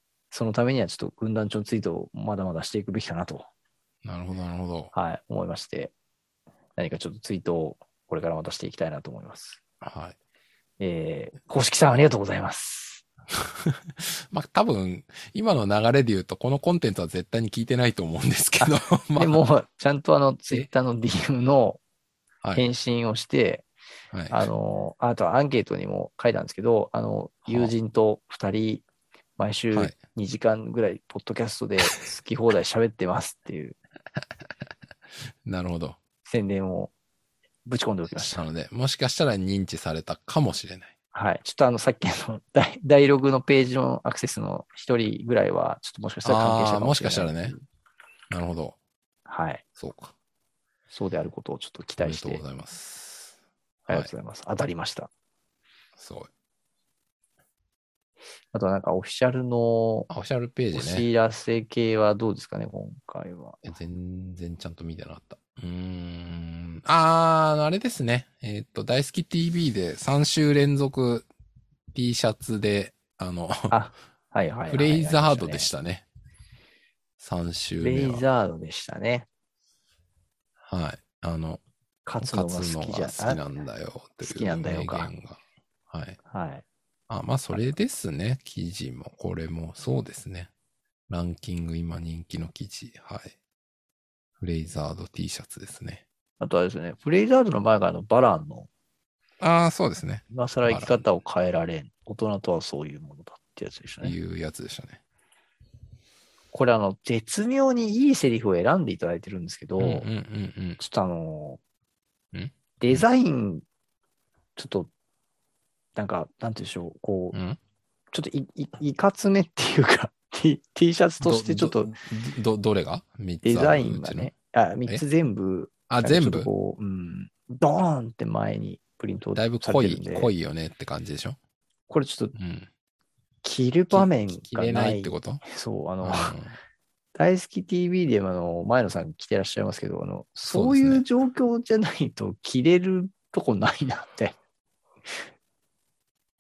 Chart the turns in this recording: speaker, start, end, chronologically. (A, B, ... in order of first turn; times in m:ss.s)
0:00.3-0:03.4 A
0:04.0-0:04.9 B
0:04.9-0:05.9 A
0:06.8-0:09.6 A
0:09.8-0:10.1 B
0:10.8-0:13.0 A
0:13.4-0:19.4 B
0:18.6-0:21.8 A
0:22.4-0:22.7 B
0:22.5-0:23.6 A
0:24.1-0:24.5 B
0:24.3-0:28.8 A
0:27.4-0:27.7 B
0:29.4-0:33.8 A
0:34.2-0:34.7 B
0:35.4-0:36.0 B
0:36.2-0:36.9 A
0:37.6-0:38.5 A
0:38.2-0:40.9 B
0:41.1-0:47.6 A
0:46.2-0:47.5 B
0:48.3-0:48.8 B
0:49.3-0:49.6 A
0:49.8-0:50.1 B
0:50.9-0:52.4 A
0:52.0-0:54.1 B
0:53.9-0:55.1 A
0:56.0-0:56.3 B
0:58.5-1:00.1 A
1:00.1-1:01.1 B
1:00.7-1:03.6 A
1:03.6-1:11.3 B
1:11.9-1:13.7 B
1:13.7-1:15.7 A
1:14.7-1:16.0 B
1:17.2-1:18.2 B
1:17.8-1:19.3 A
1:20.6-1:21.6 B
1:22.0-1:23.4 A
1:22.2-1:26.2 B
1:24.2-1:25.1 A
1:26.3-1:26.6 A
1:27.1-1:30.5 B
1:31.1-1:33.3 B
1:34.4-1:36.0 B
1:36.4-1:38.7 A
1:39.4-1:41.0 B
1:40.3-1:44.2 A
1:44.0-1:45.0 B
1:46.5-1:50.1 A
1:49.8-1:50.8 B
1:50.8-1:51.6 A
1:52.3-1:53.0 B
1:52.8-1:53.6 A
1:54.6-1:54.9 A
1:56.0-1:57.4 A
1:57.3-1:57.6 B
1:58.1-2:01.9 A
2:01.2-2:04.3 B
2:03.4-2:10.3 A
2:05.9-2:06.5 B
2:09.4-2:11.4 B
2:11.9-2:12.3 A
2:12.3-2:12.7 B
2:13.4-2:16.4 A
2:13.9-2:15.4 B
2:16.0-2:16.5 B
2:17.1-2:24.4 A
2:20.5-2:21.0 B